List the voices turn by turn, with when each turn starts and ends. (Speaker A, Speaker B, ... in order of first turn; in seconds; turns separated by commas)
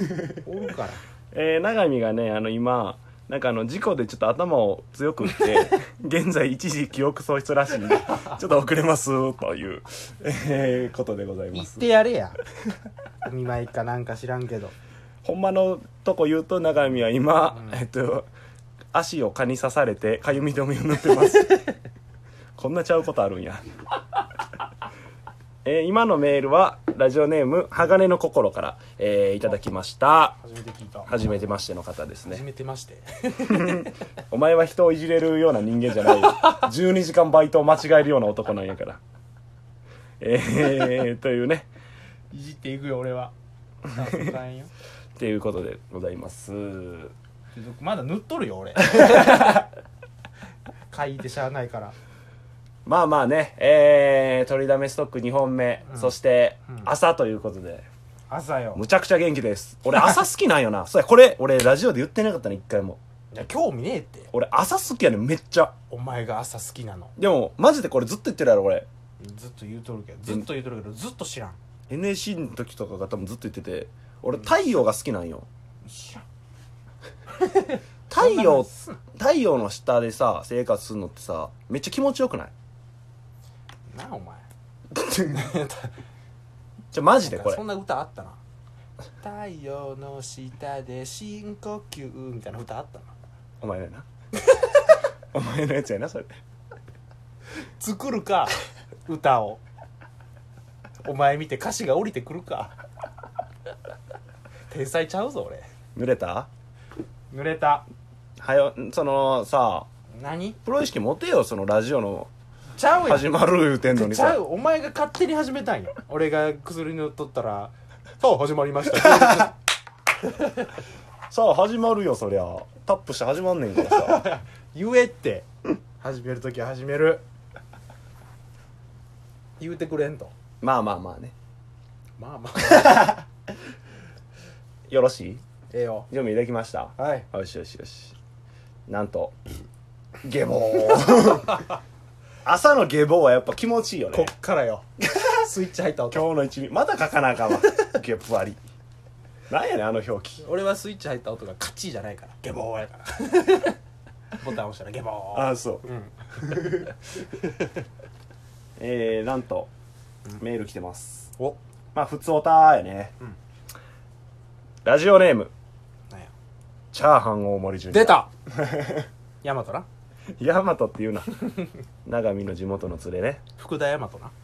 Speaker A: 0.4-1.0, Speaker B: 1.3-11.8, Speaker A: 11.5-12.4, Speaker A: 13.2-14.7, Speaker B: 15.2-18.3, Speaker A: 17.5-17.8, Speaker B: 18.9-21.7, Speaker B: 22.6-23.6, Speaker B: 25.6-30.4, Speaker A: 30.4-31.3, Speaker B: 31.1-32.5, Speaker A: 32.3-33.9, Speaker B: 33.4-39.0, Speaker B: 40.2-41.7, Speaker A: 42.3-43.3, Speaker A: 43.9-44.7, Speaker B: 45.1-47.1, Speaker A: 47.5-49.7, Speaker B: 49.0-49.4, Speaker A: 50.9-51.9, Speaker B: 52.9-57.9, Speaker A: 55.9-56.1, Speaker A: 58.3-58.8, Speaker B: 58.7-63.0, Speaker A: 63.3-64.3, Speaker B: 64.3-65.7, Speaker A: 65.9-67.1, Speaker B: 67.2-68.9, Speaker A: 69.2-71.6, Speaker B: 71.9-75.5, Speaker A: 75.8-76.2, Speaker A: 77.4-79.0, Speaker B: 78.1-82.5, Speaker A: 83.9-84.5, Speaker A: 85.1-85.9, Speaker B: 86.9-87.6, Speaker A: 87.2-88.4, Speaker A: 89.2-93.1, Speaker B: 93.6-94.0, Speaker A: 94.4-94.9, Speaker B: 95.3-96.3, Speaker A: 97.8-98.5, Speaker A: 99.1-99.6, Speaker A: 101.0-102.7, Speaker A: 104.7-105.7, Speaker B: 105.9-106.5, Speaker A: 107.3-107.8, Speaker B: 108.4-109.9, Speaker A: 110.2-110.6, Speaker B: 110.6-112.3, Speaker A: 112.8-119.6, Speaker B: 113.0-114.4, Speaker B: 118.9-119.5, Speaker A: 120.2-120.8, Speaker B: 121.3-124.2, Speaker A: 123.8-125.5, Speaker A: 126.0-127.2, Speaker A: 129.6-130.3, Speaker B: 130.6-131.3, Speaker A: 132.2-133.2, Speaker B: 134.9-135.4, Speaker A: 135.7-136.1, Speaker B: 136.1-138.2, Speaker A: 137.0-137.3, Speaker B: 138.9-139.3, Speaker B: 140.2-141.6, Speaker A: 141.1-141.7, Speaker B: 142.4-144.3, Speaker A: 144.1-146.3, Speaker B: 146.1-148.6, Speaker B: 149.5-150.4, Speaker A: 150.4-153.8, Speaker A: 154.4-157.7, Speaker B: 155.3-155.9, Speaker B: 158.8-159.7, Speaker B: 160.4-161.3, Speaker B: 161.9-163.1, Speaker B: 164.8-165.5, Speaker B: 166.9-169.1, Speaker A: 167.9-168.3, Speaker A: 169.4-169.9, Speaker B: 170.4-171.5, Speaker B: 172.0-173.4, Speaker A: 173.6-174.3